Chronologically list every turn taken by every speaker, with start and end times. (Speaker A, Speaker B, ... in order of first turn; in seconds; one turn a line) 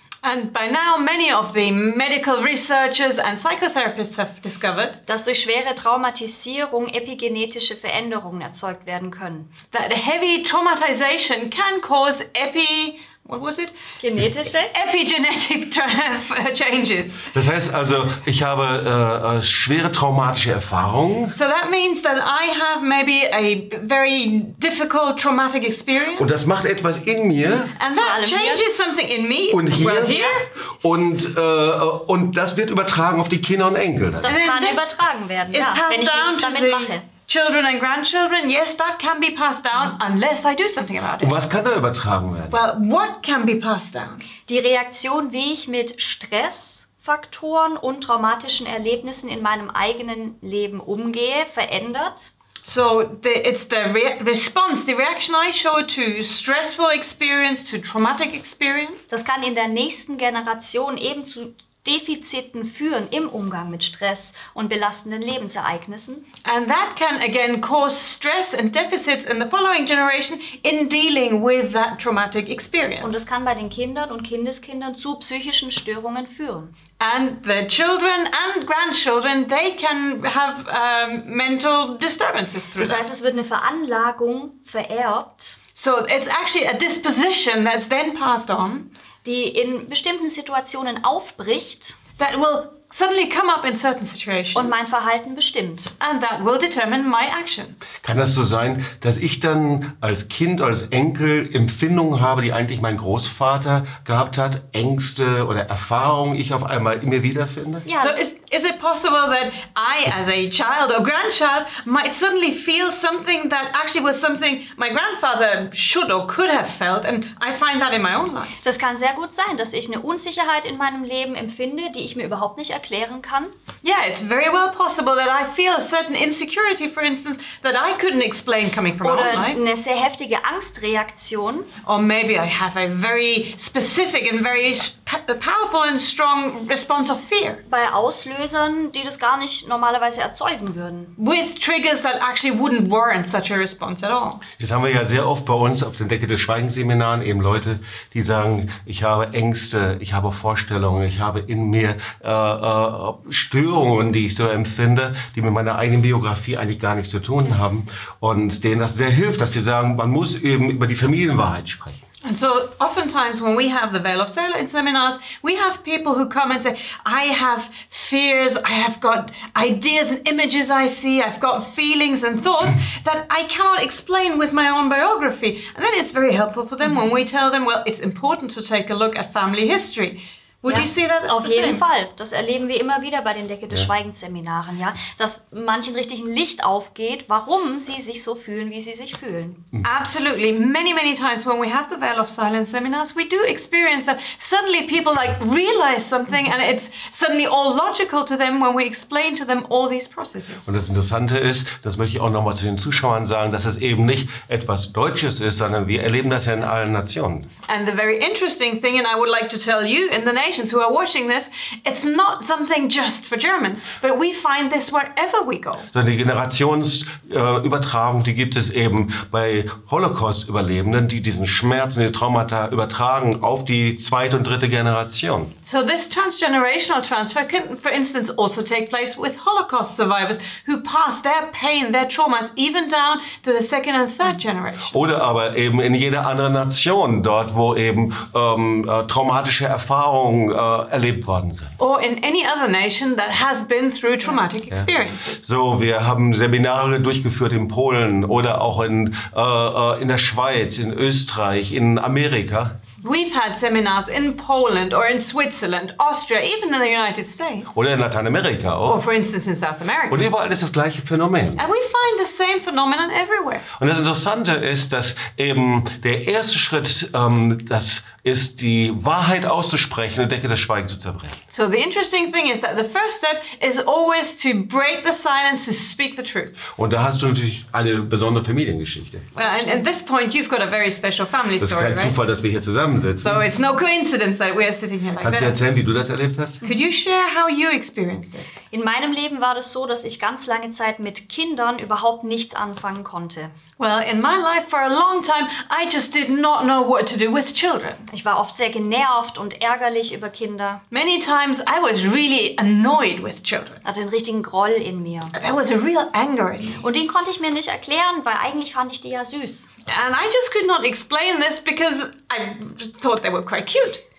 Speaker A: 0.2-5.0
Speaker B: 5.1-9.5
Speaker A: 9.7-13.8
Speaker B: 14.0-14.8
Speaker A: 14.7-17.2
Speaker C: 17.3-21.4
Speaker A: 21.3-26.3
Speaker C: 26.2-27.7
Speaker A: 27.8-30.5
Speaker B: 28.0-28.7
Speaker C: 29.5-34.3
Speaker B: 34.2-37.1
Speaker A: 34.2-35.0
Speaker A: 35.5-41.3
Speaker C: 41.2-42.6
Speaker A: 42.5-44.3
Speaker B: 44.5-52.3
Speaker A: 52.6-59.1
Speaker B: 59.1-66.2
Speaker A: 66.5-73.2
Speaker B: 73.0-76.7
Speaker A: 77.0-83.0
Speaker B: 82.8-85.6
Speaker A: 85.8-88.9
Speaker B: 89.2-92.0
Speaker A: 92.2-94.8
Speaker B: 94.5-95.9
Speaker A: 96.0-97.8
Speaker C: 98.0-107.9
Speaker B: 107.9-108.2
Speaker A: 108.0-118.5
Speaker B: 118.6-123.5
Speaker A: 123.8-129.6
Speaker B: 129.0-131.7
Speaker A: 131.8-137.6
Speaker B: 137.7-141.1
Speaker A: 141.2-144.4
Speaker C: 144.6-162.0
Speaker A: 162.2-181.8
Speaker B: 180.7-189.7
Speaker A: 189.8-200.7
Speaker C: 200.7-207.5
Speaker A: 207.7-215.9
Speaker C: 215.9-225.5
Speaker A: 225.6-235.0
Speaker C: 234.9-241.8
Speaker A: 241.8-245.4
Speaker C: 245.4-252.8
Speaker A: 253.0-257.7
Speaker C: 257.7-259.0
Speaker A: 258.9-260.3
Speaker C: 260.1-261.6
Speaker A: 261.6-263.7
Speaker C: 263.8-271.4
Speaker A: 271.5-276.6
Speaker C: 276.8-279.4
Speaker A: 279.4-282.2
Speaker C: 281.6-283.4
Speaker A: 283.2-285.7
Speaker C: 285.2-286.6
Speaker A: 286.6-288.5
Speaker B: 288.7-293.5
Speaker A: 293.8-298.1
Speaker B: 298.1-300.8
Speaker A: 300.9-303.8
Speaker B: 303.9-305.4
Speaker A: 305.3-306.9
Speaker B: 306.8-309.7
Speaker A: 309.9-314.0